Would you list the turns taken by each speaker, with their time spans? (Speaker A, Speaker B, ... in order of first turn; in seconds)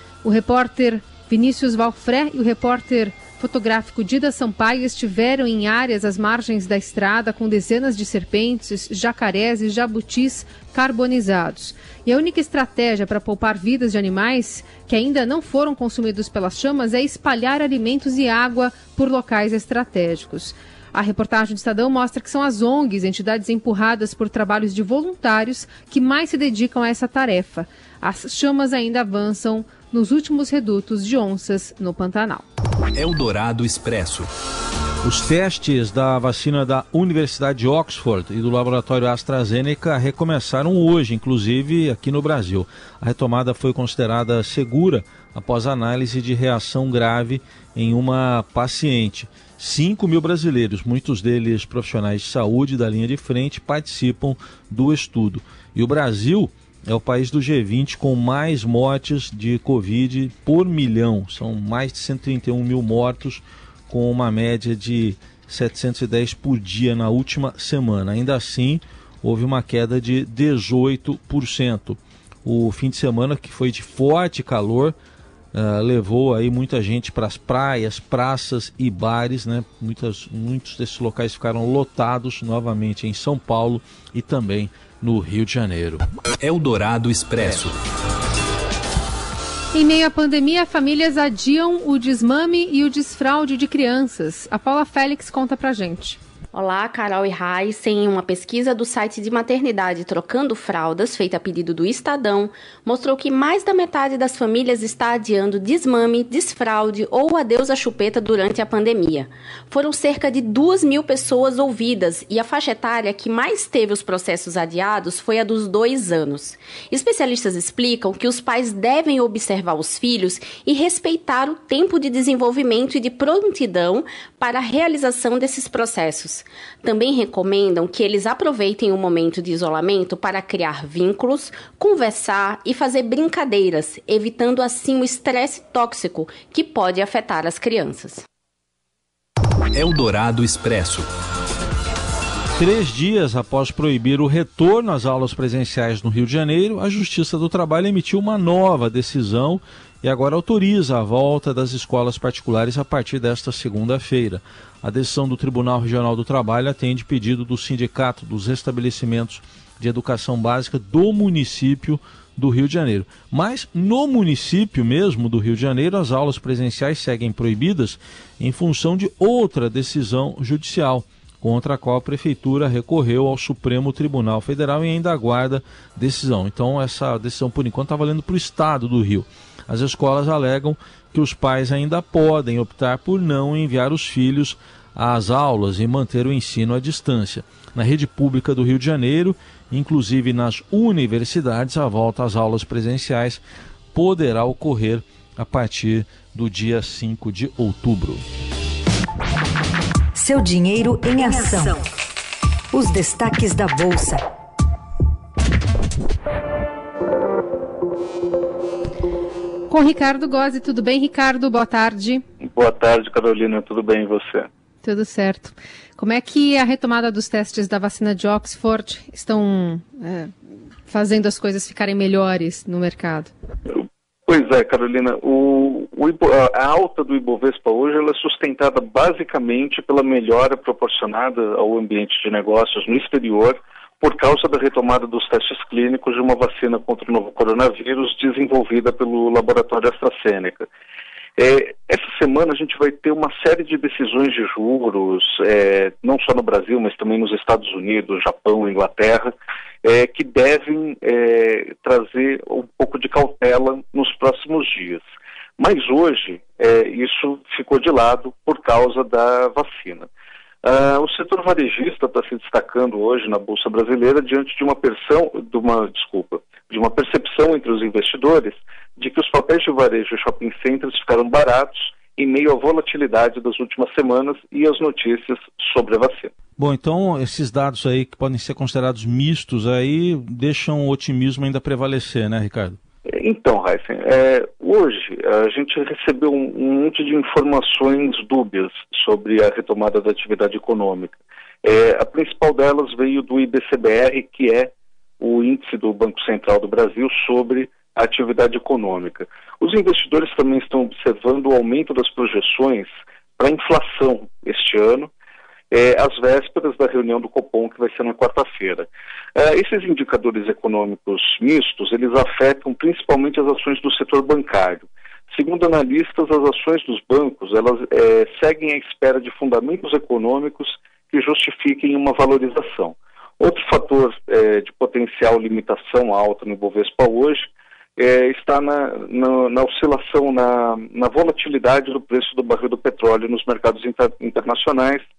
Speaker A: 0.2-32.4, 89.7-96.2, 209.7-212.2, 214.8-220.3, 220.9-223.3
Speaker B: 32.9-34.3, 86.4-87.8, 139.7-141.1
Speaker C: 35.0-75.0, 75.5-86.0, 142.6-193.4, 193.9-198.2, 276.6-282.8
Speaker D: 96.5-138.2
Speaker E: 200.1-201.8, 202.7-204.2
Speaker F: 212.4-214.5, 223.7-240.7, 241.4-249.3, 249.8-255.0, 255.6-260.1, 260.6-276.3, 283.1-305.1, 305.7-335.0